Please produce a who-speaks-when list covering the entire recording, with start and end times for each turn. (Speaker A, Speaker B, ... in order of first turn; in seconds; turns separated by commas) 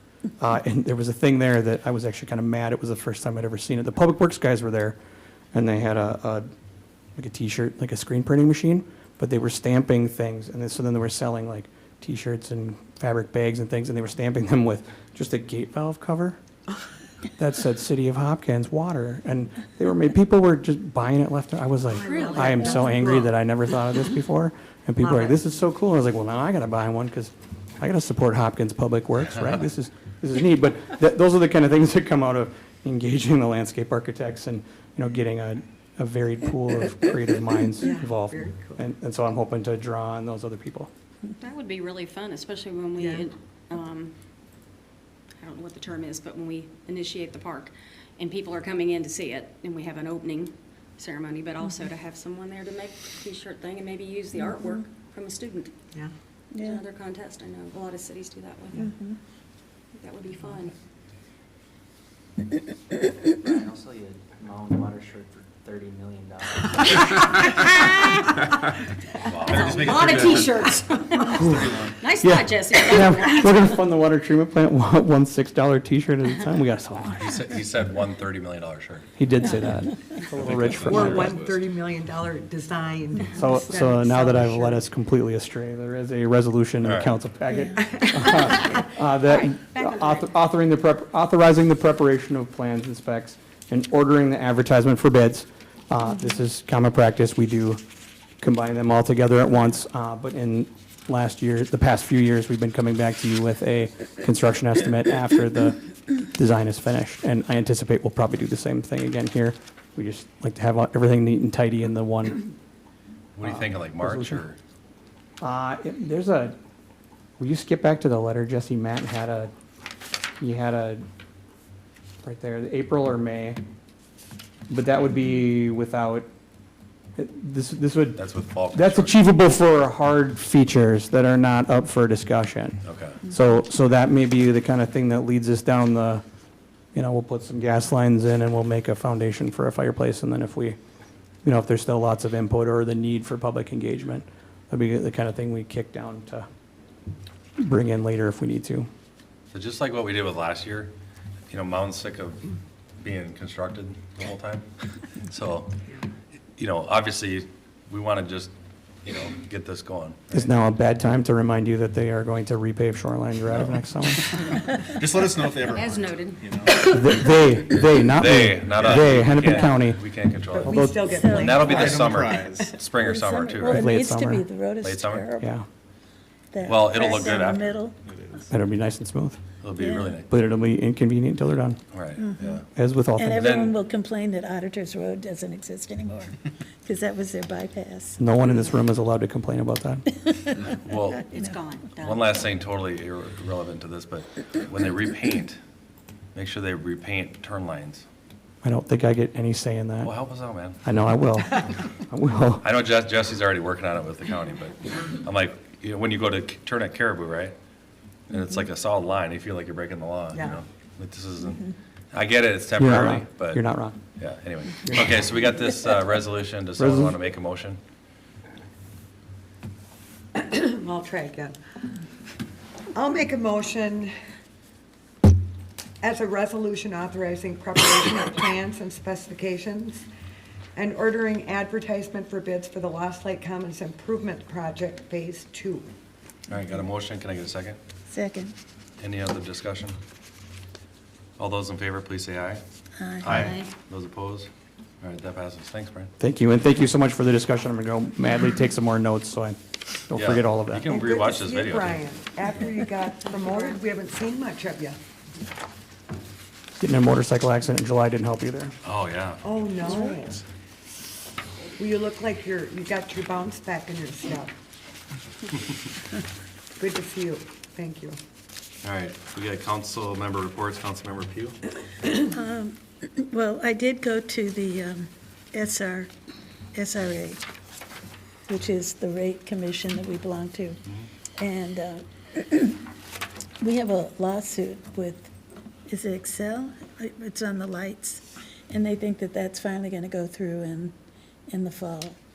Speaker A: 0.4-5.0, Speaker A: 5.5-6.5, Speaker A: 7.2-16.4, Speaker A: 17.4-40.9, Speaker B: 21.9-23.1, Speaker C: 21.9-23.3, Speaker C: 25.0-25.4, Speaker C: 37.8-38.8, Speaker B: 41.4-44.1, Speaker C: 43.0-43.3, Speaker B: 45.4-55.7, Speaker D: 54.4-54.8, Speaker D: 56.5-56.8, Speaker B: 56.6-58.9, Speaker D: 58.8-59.2, Speaker B: 60.0-60.7, Speaker E: 63.4-66.8, Speaker F: 69.2-70.6, Speaker B: 69.5-73.7, Speaker A: 71.3-77.4, Speaker F: 71.4-72.0, Speaker F: 77.2-79.1, Speaker A: 79.2-81.4, Speaker G: 80.4-81.6, Speaker C: 80.8-84.8, Speaker A: 83.3-97.8, Speaker F: 86.8-87.1, Speaker D: 87.5-87.8, Speaker C: 87.8-88.8, Speaker B: 89.3-90.2, Speaker A: 98.4-105.8, Speaker A: 106.3-112.4, Speaker F: 113.4-114.6, Speaker A: 113.4-114.4, Speaker A: 115.4-116.6, Speaker A: 117.4-119.5, Speaker A: 120.4-121.0, Speaker A: 122.2-123.6, Speaker A: 124.7-126.3, Speaker A: 127.2-136.2, Speaker F: 128.2-129.2, Speaker F: 132.8-133.2, Speaker A: 136.9-140.8, Speaker A: 141.4-146.5, Speaker A: 147.6-148.9, Speaker F: 149.5-150.9, Speaker F: 151.5-152.4, Speaker F: 153.0-154.7, Speaker F: 155.3-155.7, Speaker F: 156.6-158.5, Speaker F: 159.0-160.4, Speaker A: 160.3-164.3, Speaker F: 163.5-163.8, Speaker G: 164.8-167.3, Speaker B: 165.6-167.2, Speaker A: 166.9-170.0, Speaker F: 168.0-170.8, Speaker G: 168.8-169.2, Speaker C: 170.5-171.9, Speaker A: 170.6-171.3, Speaker D: 171.0-171.7, Speaker F: 171.3-173.9, Speaker G: 171.6-172.8, Speaker D: 173.0-175.5, Speaker A: 173.7-174.5, Speaker F: 174.8-175.3, Speaker A: 175.4-175.7, Speaker D: 176.5-178.0, Speaker F: 176.7-177.7, Speaker G: 177.3-178.5, Speaker A: 178.5-179.4, Speaker F: 179.6-180.2, Speaker D: 179.8-180.2, Speaker A: 180.2-181.8, Speaker F: 181.9-182.7, Speaker D: 182.2-182.6, Speaker A: 182.7-183.4, Speaker D: 183.2-188.2, Speaker F: 183.3-183.8, Speaker A: 188.2-190.1, Speaker F: 190.7-191.3, Speaker B: 191.3-192.2, Speaker D: 191.3-191.9, Speaker F: 192.0-195.6, Speaker F: 196.3-198.1, Speaker A: 198.6-200.1, Speaker F: 200.0-200.8, Speaker A: 200.8-202.7, Speaker F: 202.6-207.5, Speaker F: 208.3-213.6, Speaker C: 210.3-210.6, Speaker A: 212.8-214.0, Speaker F: 214.2-217.8, Speaker A: 214.8-215.1, Speaker A: 216.8-217.2, Speaker C: 220.4-221.6, Speaker C: 222.9-224.1, Speaker C: 226.0-230.1, Speaker C: 230.8-235.9, Speaker F: 236.5-237.8, Speaker D: 238.1-238.6, Speaker F: 239.0-240.0, Speaker F: 241.4-242.6, Speaker D: 243.0-243.7, Speaker F: 243.2-244.5, Speaker B: 243.3-243.7, Speaker F: 245.0-246.1, Speaker A: 246.2-250.9, Speaker F: 250.1-252.0, Speaker C: 250.9-255.0, Speaker A: 256.8-258.8, Speaker F: 258.8-259.4, Speaker C: 259.4-260.4, Speaker C: 261.8-264.5, Speaker C: 266.8-268.2, Speaker F: 268.8-271.6, Speaker D: 272.1-276.1, Speaker D: 276.7-277.4, Speaker D: 278.5-280.8, Speaker D: 281.4-282.8, Speaker D: 283.6-285.3, Speaker D: 285.9-290.9, Speaker D: 291.5-292.2